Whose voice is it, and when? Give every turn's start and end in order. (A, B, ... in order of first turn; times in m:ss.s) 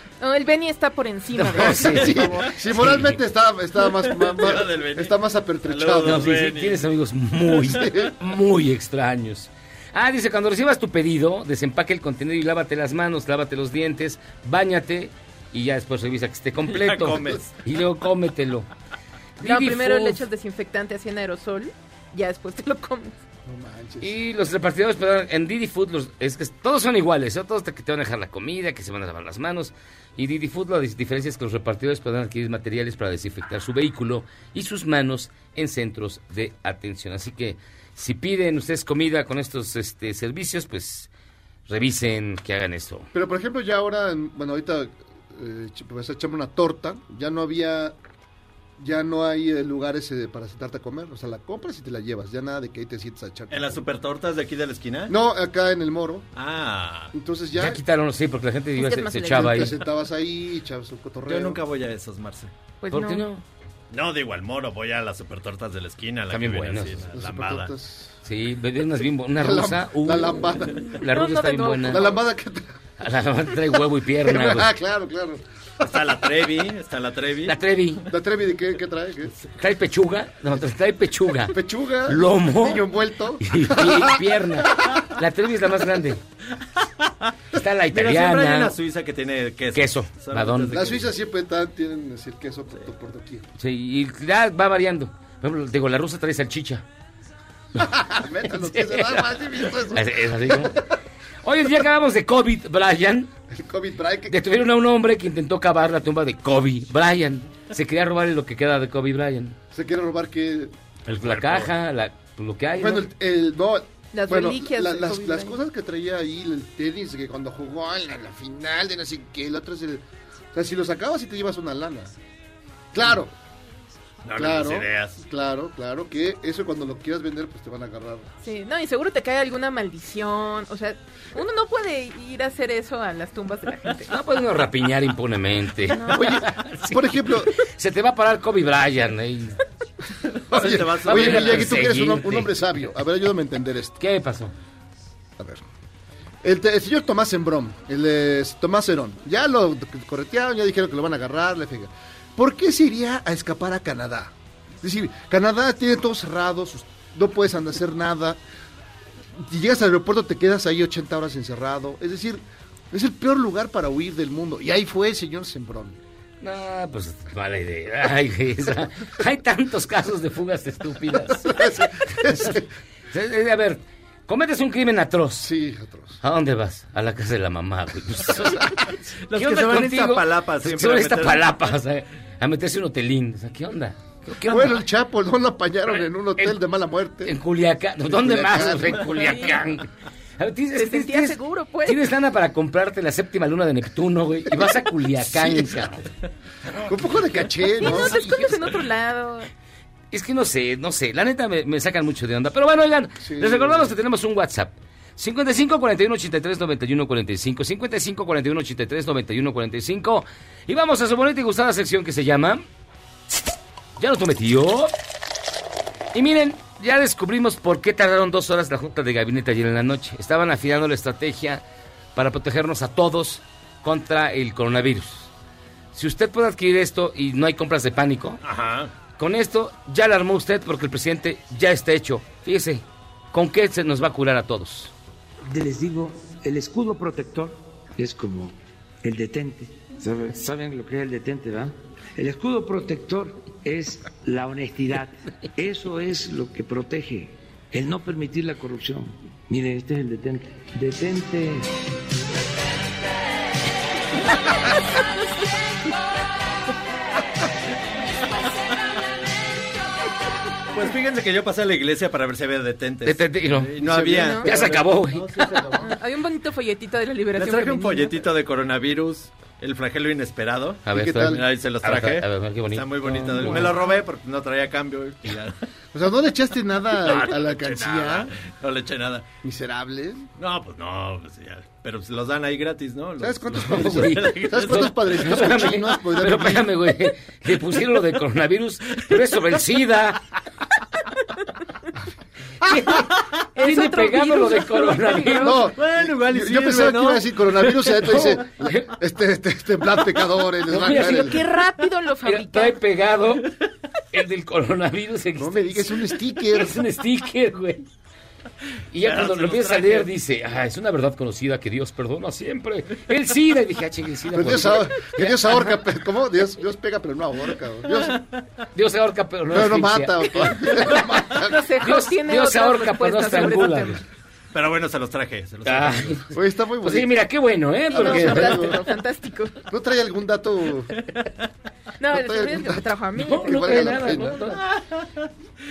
0:00.2-0:02.1 A
0:01.4-0:03.2 B
0:01.6-0:06.5 C
0:01.9-0:02.2 D
0:04.1-0:05.1 D
0:05.6-0:06.8 D
0:06.0-0:18.7 B
0:07.6-0:08.1 C
0:16.7-0:17.5 D
0:19.4-0:20.2 B
0:19.4-0:23.2 A
0:23.5-0:24.1 C
0:24.0-0:41.1 B
0:41.7-0:43.1 B
0:43.1-0:48.0 C
0:48.8-0:53.8 C
0:53.5-0:55.1 D
0:55.1-0:56.3 C
0:56.4-0:57.1 D
0:57.1-0:57.8 C
0:57.5-0:59.8 B
0:58.8-0:59.7 A
0:59.3-1:01.6 C
1:01.3-1:02.5 D
1:02.8-1:03.2 A
1:02.9-1:03.4 B
1:03.9-1:07.7 D
1:06.3-1:07.0 B
1:07.1-1:08.2 C
1:08.2-1:12.1 B
1:09.4-1:11.0 C
1:11.0-1:12.1 A
1:11.8-1:12.8 C
1:13.0-1:14.7 B
1:14.2-1:15.9 C
1:15.8-1:17.6 D
1:17.5-1:18.1 B
1:18.1-1:19.3 C
1:19.6-1:22.9 B
1:21.5-1:24.7 C
1:23.4-1:26.2 B
1:27.5-1:28.8 B
1:27.9-1:31.1 D
1:29.7-1:30.8 B
1:30.7-1:33.5 C
1:33.6-1:36.8 B
1:37.8-1:40.8 C
1:38.6-1:40.9 B
1:41.4-1:43.3 B
1:43.5-1:44.4 C
1:44.3-1:49.6 B
1:49.7-1:50.7 C
1:51.1-1:53.1 B
1:51.2-1:51.7 D
1:52.8-2:02.1 C
1:54.1-1:55.6 A
2:02.9-2:03.3 C
2:04.2-2:05.2 D
2:04.3-2:08.3 C
2:08.4-2:14.1 A
2:14.1-2:19.6 B
2:15.9-2:16.4 A
2:16.0-2:17.5 C
2:20.5-2:24.0 C
2:20.5-2:21.9 D
2:21.0-2:22.5 B
2:24.0-2:24.5 B
2:25.4-2:25.6 C
2:26.4-2:38.4 C
2:39.4-2:46.0 C
2:46.4-2:52.6 B
2:51.4-2:52.7 C
2:53.1-2:55.5 B
2:55.4-2:56.2 C
2:56.2-3:04.8 B
2:59.3-3:01.5 D
3:04.4-3:07.4 C
3:07.2-3:09.9 B
3:08.1-3:09.3 C
3:10.4-3:16.0 B
3:10.8-3:12.0 A
3:14.5-3:15.9 C
3:16.9-3:18.7 C
3:17.8-3:19.5 A
3:20.1-3:32.6 B
3:23.2-3:24.0 C
3:34.0-3:34.9 B
3:36.1-3:41.6 B
3:42.2-3:45.3 B
3:45.9-3:48.4 B
3:48.4-3:48.9 D
3:49.2-3:54.9 B
3:55.5-4:11.7 E
4:20.7-4:25.9 D
4:23.0-4:25.4 B
4:23.8-4:24.4 C
4:24.2-4:24.5 A
4:25.8-4:28.2 A
4:27.4-4:35.6 D
4:30.9-4:33.9 B
4:30.9-4:31.4 C
4:35.9-4:38.3 C
4:37.0-4:39.3 D
4:39.4-4:40.3 C
4:40.4-4:44.9 D
4:43.2-4:46.7 C
4:43.6-4:50.2 B
4:52.6-4:55.7 B
4:53.6-4:55.5 A
4:55.4-5:01.4 C
4:55.7-4:58.4 D
4:58.0-4:58.9 B
5:00.7-5:01.5 B
5:01.0-5:02.8 A
5:02.2-5:03.5 B
5:04.1-5:07.9 B
5:05.4-5:06.8 C
5:08.9-5:15.7 B
5:09.0-5:10.1 D
5:14.3-5:18.2 C
5:18.7-5:21.1 B
5:19.5-5:21.8 C
5:21.4-5:24.0 A
5:21.8-5:24.0 B
5:24.5-5:26.3 D
5:25.6-5:26.3 B
5:26.3-5:27.1 C
5:26.8-5:28.8 B
5:27.9-5:29.5 A
5:27.9-5:28.8 C
5:29.7-5:30.9 C
5:32.0-5:33.6 A
5:32.1-5:34.4 C
5:33.2-5:34.6 B
5:34.8-5:35.0 D